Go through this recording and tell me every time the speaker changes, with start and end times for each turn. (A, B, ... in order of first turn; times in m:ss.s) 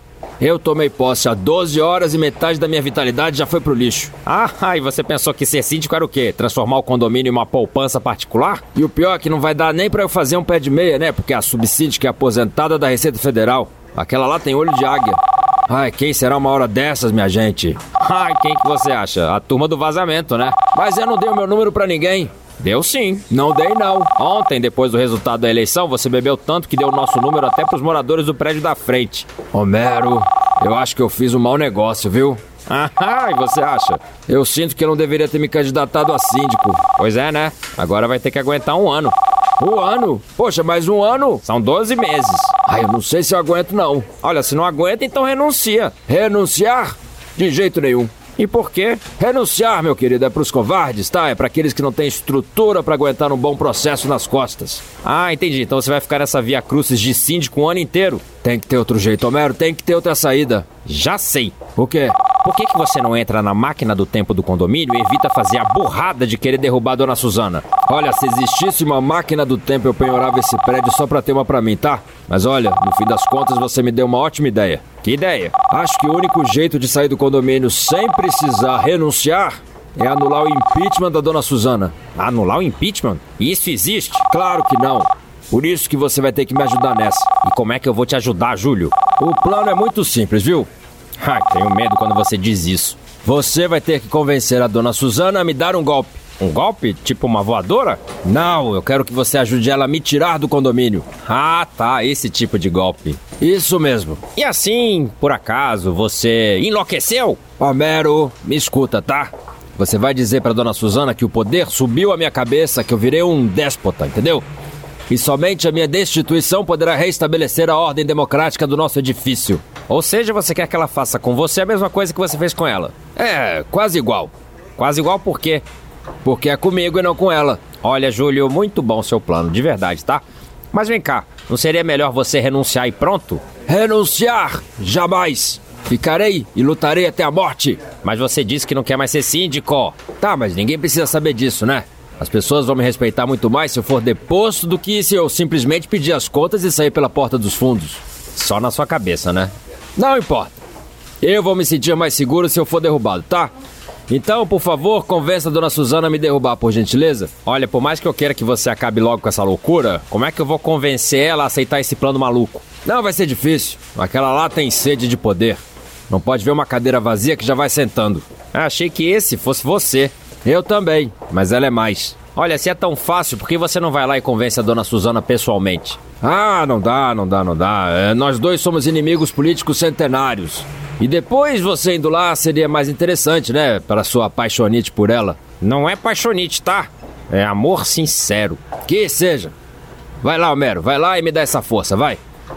0:00.4-1:30.7 A
1:31.2-1:54.4 A
1:55.1-2:05.6 A
2:06.2-2:30.6 A
2:31.2-2:33.5 A
2:34.1-3:09.5 A
3:10.2-3:12.2 A